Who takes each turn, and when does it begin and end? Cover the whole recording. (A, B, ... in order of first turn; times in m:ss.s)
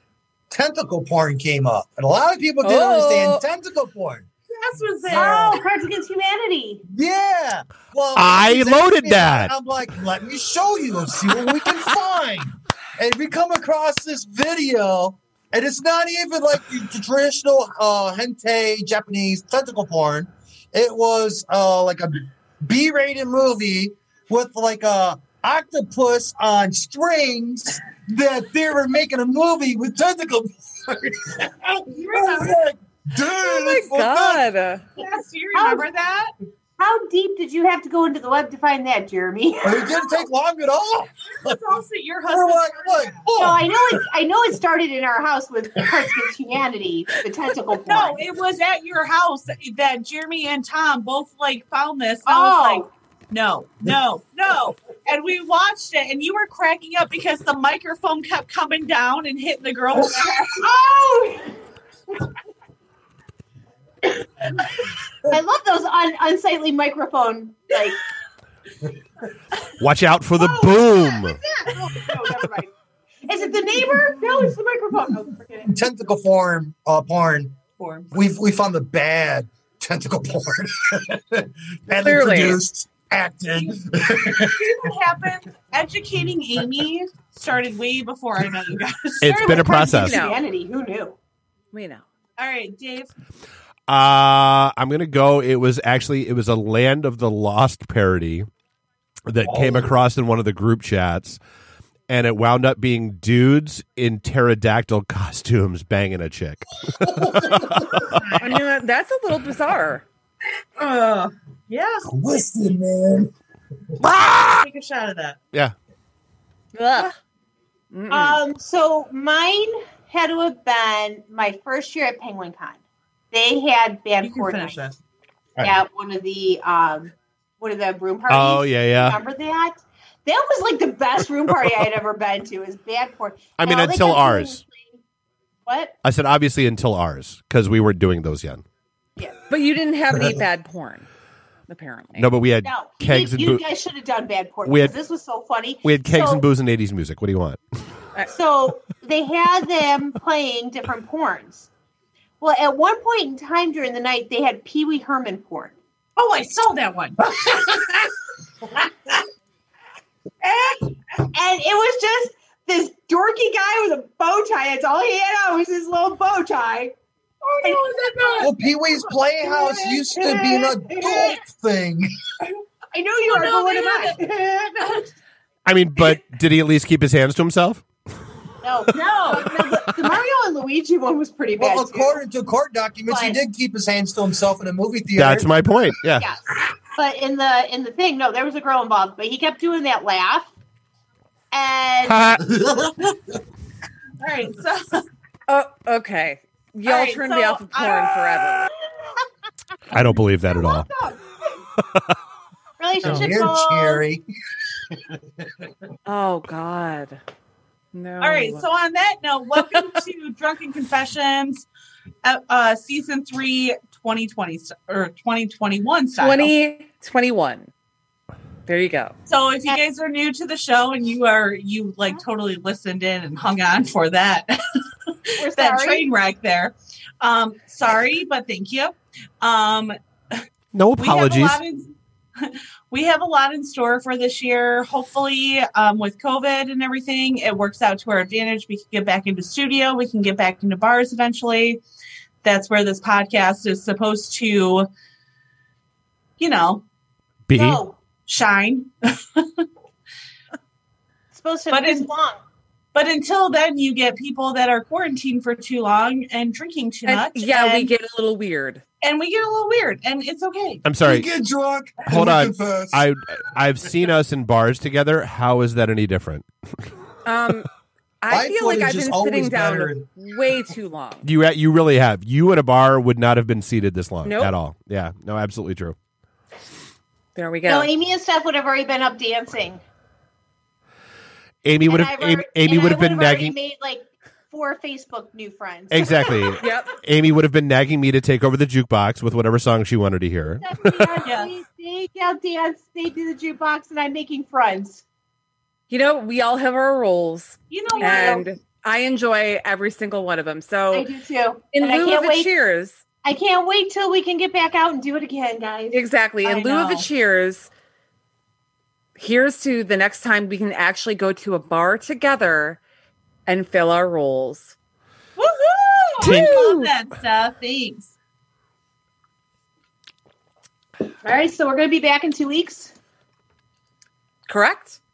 0:00.5-0:04.3 A
0:02.6-0:03.4 B
0:04.5-0:05.6 C
0:05.0-0:05.6 A
0:05.1-0:06.8 D
0:06.9-0:34.4 A
0:08.2-0:09.5 E
0:31.9-0:32.6 C
0:33.4-0:34.8 B
0:35.0-0:36.3 C
0:35.5-0:35.8 D
0:36.8-0:40.2 D
0:39.6-0:41.6 A
0:41.3-0:43.3 C
0:42.3-0:44.0 A
0:43.4-0:48.2 D
0:45.9-0:46.2 A
0:47.8-1:00.6 C
0:52.3-0:52.9 D
1:00.0-1:00.5 A
1:00.6-1:01.6 D
1:05.3-1:08.0 D
1:09.8-1:11.4 E
1:10.4-1:12.7 D
1:13.2-1:15.7 D
1:13.7-1:14.5 A
1:15.6-1:17.6 A
1:17.8-1:18.1 C
1:18.1-1:24.7 A
1:22.0-1:22.6 B
1:24.3-1:29.7 C
1:29.2-1:30.2 E
1:29.2-1:31.2 D
1:29.8-1:30.4 B
1:31.7-1:32.0 B
1:32.4-1:33.1 C
1:33.9-1:38.5 E
1:39.3-1:41.4 E
1:39.4-1:39.9 A
1:42.1-1:48.2 E
1:47.0-1:48.2 A
1:48.4-1:50.0 B
1:50.8-1:52.1 C
1:52.0-1:53.3 A
1:54.0-1:54.7 E
1:54.5-1:55.4 C
1:56.7-1:57.1 B
1:57.9-1:58.4 B
1:58.1-2:02.8 D
2:03.3-2:04.8 D
2:04.2-2:05.0 C
2:05.6-2:15.0 D
2:08.3-2:09.2 E
2:13.6-2:14.6 E
2:15.6-2:15.9 D
2:16.0-2:18.6 E
2:19.5-2:21.1 B
2:21.7-2:22.3 B
2:22.2-2:23.6 E
2:22.6-2:26.4 D
2:24.6-2:24.9 E
2:25.8-2:27.6 E
2:28.3-2:31.7 D
2:32.4-2:35.8 D
2:36.2-2:37.3 C
2:37.4-2:37.9 A
2:40.4-2:40.9 C
2:41.3-2:46.9 D
2:47.4-2:48.5 C
2:47.6-2:51.4 D
2:48.4-2:52.1 A
2:52.9-2:55.1 D
2:53.2-2:54.2 C
2:55.6-2:57.8 E
2:58.6-3:02.2 D
3:01.6-3:05.5 A
3:03.1-3:03.4 D
3:05.2-3:06.3 E
3:06.2-3:06.4 D
3:06.9-3:10.5 D
3:11.5-3:12.4 D
3:12.0-3:12.4 E
3:12.4-3:13.1 A
3:14.2-3:15.0 C
3:15.5-3:18.7 B
3:16.8-3:18.5 C
3:19.9-3:20.9 E
3:20.5-3:21.5 D
3:22.8-3:24.0 D
3:23.0-3:24.2 A
3:26.0-3:27.2 B
3:27.9-3:28.6 B
3:28.2-3:31.7 C
3:32.2-3:36.5 C
3:36.2-3:37.7 B
3:38.7-3:39.1 B
3:39.3-3:50.4 C
3:45.4-3:46.0 D
3:50.7-3:51.6 E
3:51.0-4:01.8 C
4:02.4-4:04.9 C
4:06.4-4:06.8 C
4:07.5-4:07.8 E
4:07.5-4:08.0 D
4:08.2-4:09.6 C
4:11.3-4:12.4 D
4:11.7-4:12.1 C
4:12.9-4:17.9 C
4:17.1-4:18.8 B
4:19.0-4:20.9 C
4:20.8-4:21.3 E
4:21.0-4:23.1 A
4:22.0-4:26.5 E
4:27.2-4:27.7 B
4:28.2-4:31.2 B
4:28.3-4:30.1 A
4:31.2-4:36.0 E
4:34.2-4:34.5 B
4:37.3-4:37.9 B
4:37.6-4:39.8 D
4:41.6-4:43.6 E
4:41.8-4:46.6 D
4:45.9-4:51.2 E
4:46.6-4:46.9 B
4:50.6-4:55.0 D
4:51.2-4:51.5 C
4:55.9-5:01.1 B
4:57.7-4:58.4 C
4:57.9-4:58.4 D
5:00.9-5:02.5 D
5:01.7-5:03.0 B
5:03.2-5:06.0 D
5:05.9-5:07.7 B
5:06.4-5:07.1 C
5:09.2-5:12.8 B
5:13.4-5:14.8 B
5:15.4-5:18.1 C
5:16.2-5:16.6 E
5:16.2-5:16.9 B
5:21.2-5:22.9 D
5:24.5-5:25.0 B